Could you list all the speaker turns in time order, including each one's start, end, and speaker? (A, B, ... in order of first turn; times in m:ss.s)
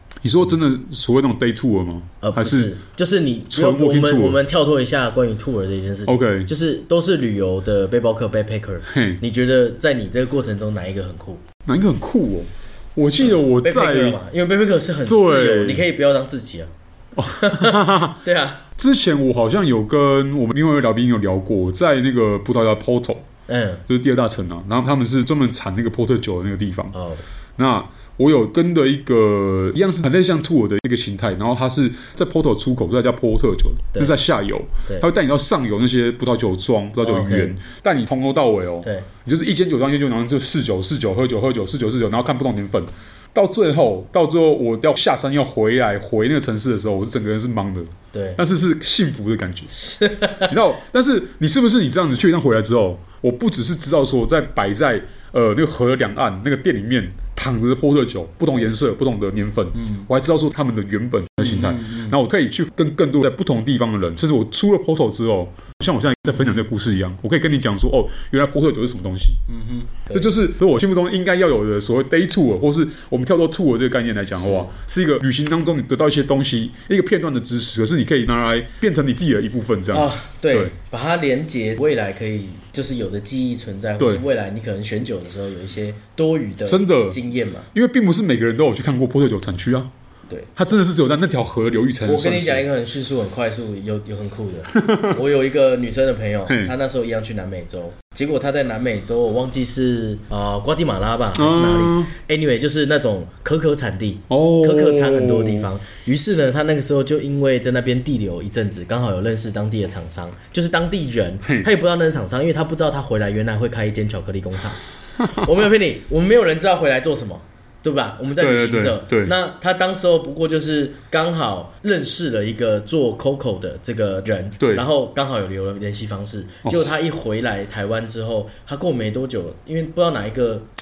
0:00.2-0:02.7 A
0:02.2-0:11.4 B
0:03.5-0:04.4 A
0:06.1-0:06.5 A
0:08.9-0:09.2 A
0:11.6-0:14.2 A
0:13.2-0:16.7 B
0:15.1-0:15.8 A
0:17.2-0:18.2 A
0:17.3-0:18.6 B
0:18.8-0:23.2 A
0:23.5-0:23.8 B
0:23.9-0:26.9 A
0:26.9-0:27.2 B
0:27.6-0:49.7 A
0:37.0-0:37.5 B
0:48.1-0:48.4 B
0:49.7-0:50.5 B
0:50.5-1:09.5 A
1:01.4-1:02.1 B
1:09.6-1:10.4 B
1:10.1-1:20.7 A
1:14.4-1:14.7 B
1:19.9-1:27.7 B
1:26.7-1:27.2 A
1:27.7-1:29.9 A
1:30.6-1:32.6 A
1:32.0-2:10.7 B
1:34.7-1:35.2 A
1:36.5-1:36.7 A
1:41.4-1:42.1 A
1:44.3-1:45.7 A
1:58.4-1:59.3 A
2:06.6-2:06.9 A